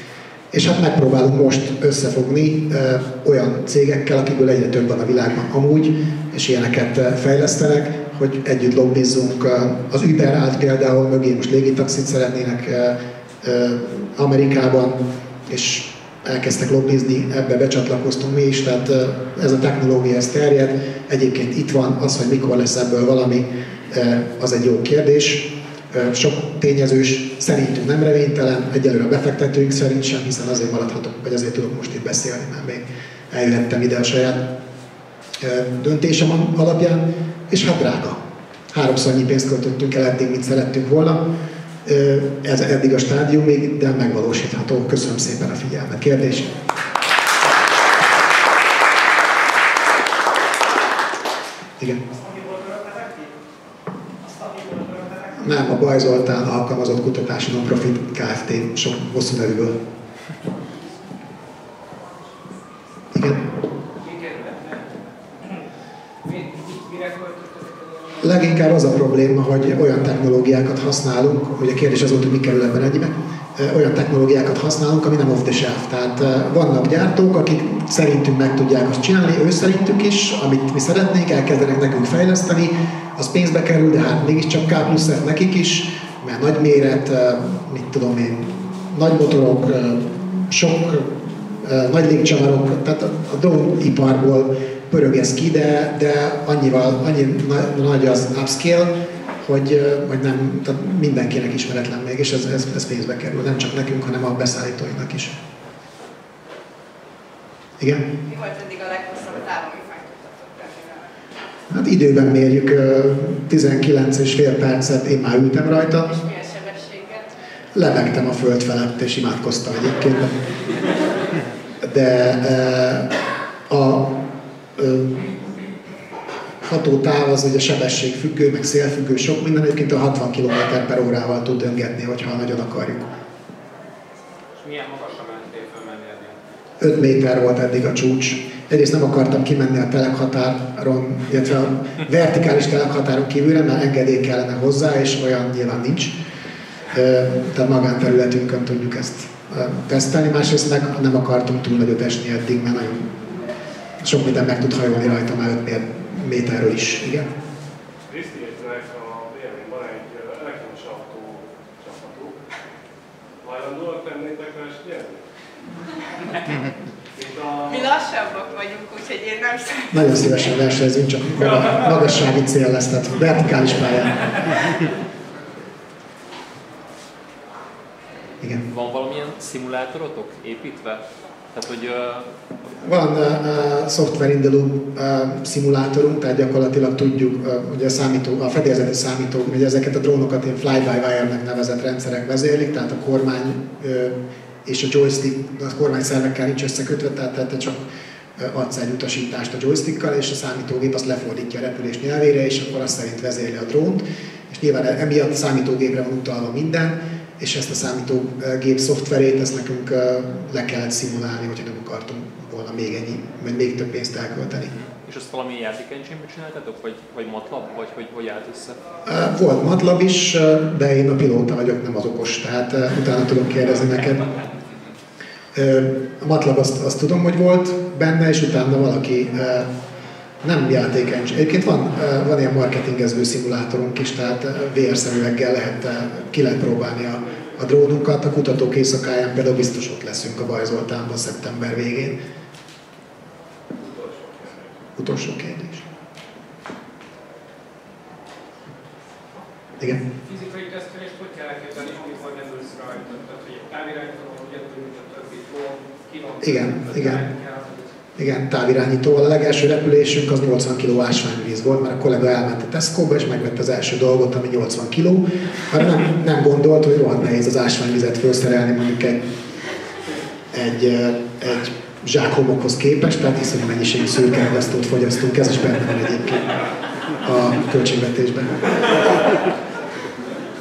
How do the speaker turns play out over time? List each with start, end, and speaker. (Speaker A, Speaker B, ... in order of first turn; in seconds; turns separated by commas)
Speaker A: 0.5-34.5, Speaker A: 35.4-38.2, Speaker A: 38.7-41.2, Speaker A: 41.9-46.6, Speaker A: 55.2-59.8, Speaker A: 63.1-63.5, Speaker B: 64.0-64.9, Speaker B: 66.2-68.2, Speaker A: 68.2-105.4, Speaker A: 107.8-108.1, Speaker C: 108.2-111.1, Speaker A: 111.7-116.2, Speaker C: 116.2-117.3, Speaker A: 117.7-120.5, Speaker A: 121.8-123.1, Speaker A: 123.7-124.2, Speaker A: 124.8-125.3, Speaker A: 126.7-133.1, Speaker D: 134.6-136.4, Speaker A: 136.8-146.2, Speaker A: 146.9-153.1, Speaker A: 154.0-157.3, Speaker E: 158.1-162.4, Speaker E: 163.4-165.2, Speaker E: 167.2-167.6, Speaker C: 167.6-170.0, Speaker A: 169.9-174.9, Speaker D: 178.7-182.3, Speaker A: 182.8-214.8, Speaker D: 214.8-218.8, Speaker A: 219.1-224.3, Speaker D: 224.4-224.9, Speaker A: 225.5-229.7, Speaker A: 230.4-242.2, Speaker E: 243.8-244.6, Speaker A: 245.0-245.9, Speaker B: 250.2-257.9, Speaker A: 256.4-257.2, Speaker A: 258.2-269.2, Speaker A: 270.5-276.7, Speaker A: 277.2-278.9